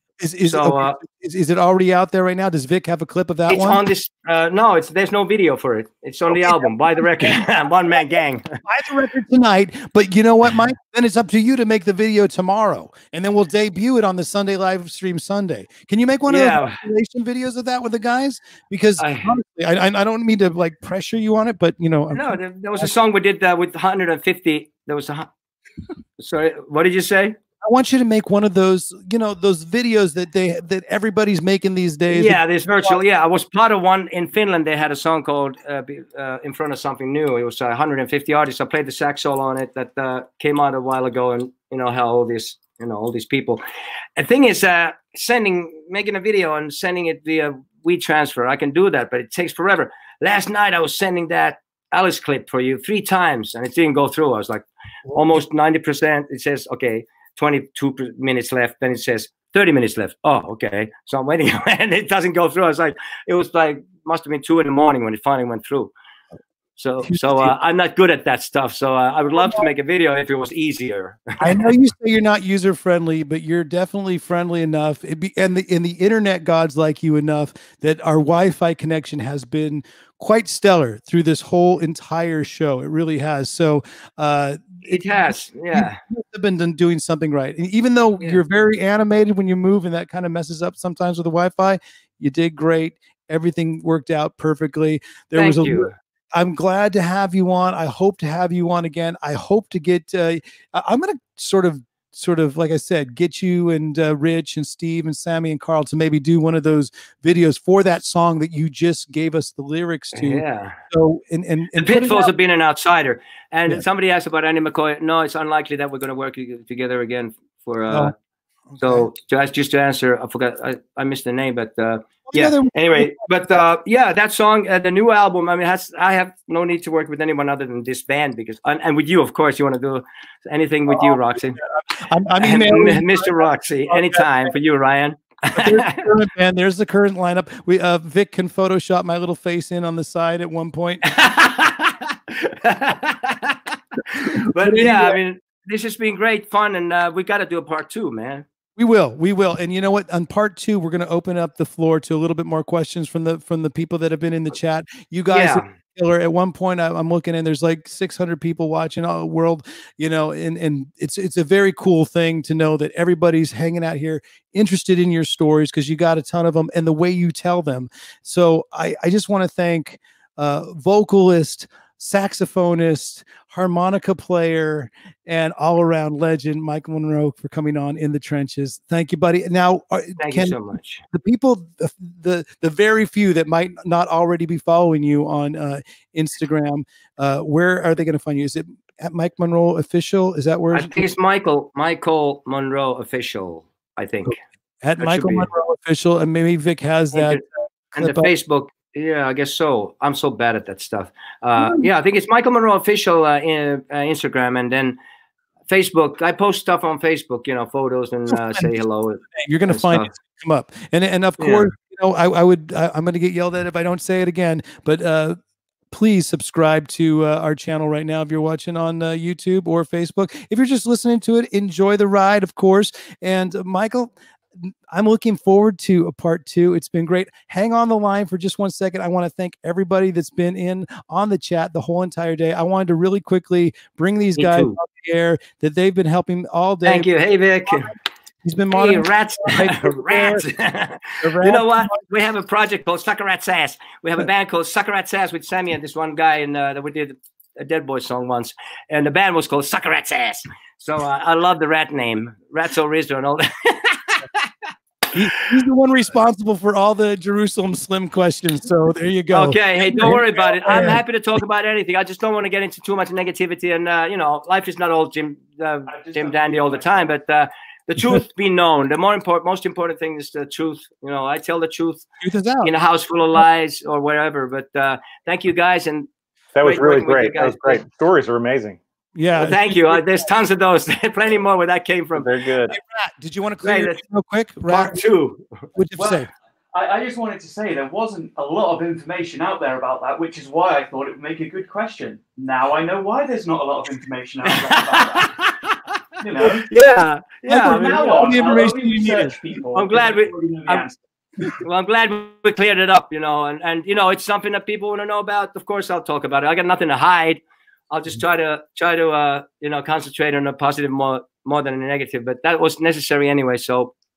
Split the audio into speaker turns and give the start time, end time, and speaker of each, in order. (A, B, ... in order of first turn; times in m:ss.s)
0:00.2-0:03.8 A
0:00.4-0:01.0 B
0:03.5-0:08.6 B
0:06.3-0:07.4 A
0:08.6-0:22.9 A
0:16.3-0:16.8 B
0:19.0-0:19.3 B
0:22.1-0:25.3 B
0:26.2-0:27.3 B
0:27.6-0:33.0 A
0:32.1-0:43.6 B
0:44.2-1:05.9 B
0:55.1-0:55.4 A
1:06.8-1:11.6 B
1:07.0-1:07.5 A
1:11.4-1:52.3 A
1:24.8-1:26.0 B
1:35.3-1:35.9 B
1:50.1-1:50.8 B
1:51.8-1:58.1 B
1:58.7-1:59.1 A
1:58.8-2:11.6 B
2:02.3-2:03.2 A
2:10.9-2:14.2 A
2:12.4-2:16.0 B
2:15.6-2:21.0 A
2:21.0-2:28.4 B
2:24.2-2:25.2 A
2:28.8-3:00.6 A
2:35.3-2:35.7 B
3:00.2-3:01.0 B
3:01.1-3:11.0 A
3:10.7-3:14.3 B
3:14.2-3:17.4 A
3:15.0-3:15.5 B
3:17.1-3:17.4 B
3:17.9-3:18.3 A
3:18.0-3:25.0 B
3:21.6-3:21.8 A
3:25.7-3:30.1 B
3:28.3-3:28.7 A
3:29.3-3:35.4 A
3:31.4-3:31.7 B
3:35.9-3:57.1 A
3:54.4-3:54.8 B
3:56.8-3:57.9 B
3:58.4-4:00.4 A
3:58.7-4:14.5 B
4:01.2-4:02.0 A
4:15.1-4:21.0 A
4:19.3-4:32.0 B
4:25.9-4:27.1 C
4:32.2-4:32.7 A
4:32.6-4:36.1 B
4:36.5-4:38.8 D
4:36.6-4:37.8 B
4:39.2-4:40.1 A
4:39.4-4:42.3 B
4:42.1-4:42.8 D
4:42.7-4:45.0 A
4:43.6-4:44.0 B
4:44.6-4:45.4 B
4:45.8-4:46.3 A
4:46.0-4:55.3 C
4:54.4-4:55.6 B
4:56.2-4:56.7 C
4:56.7-4:58.5 B
4:57.5-4:59.4 A
4:57.6-5:00.9 C
4:59.7-5:00.9 B
5:01.6-5:13.9 B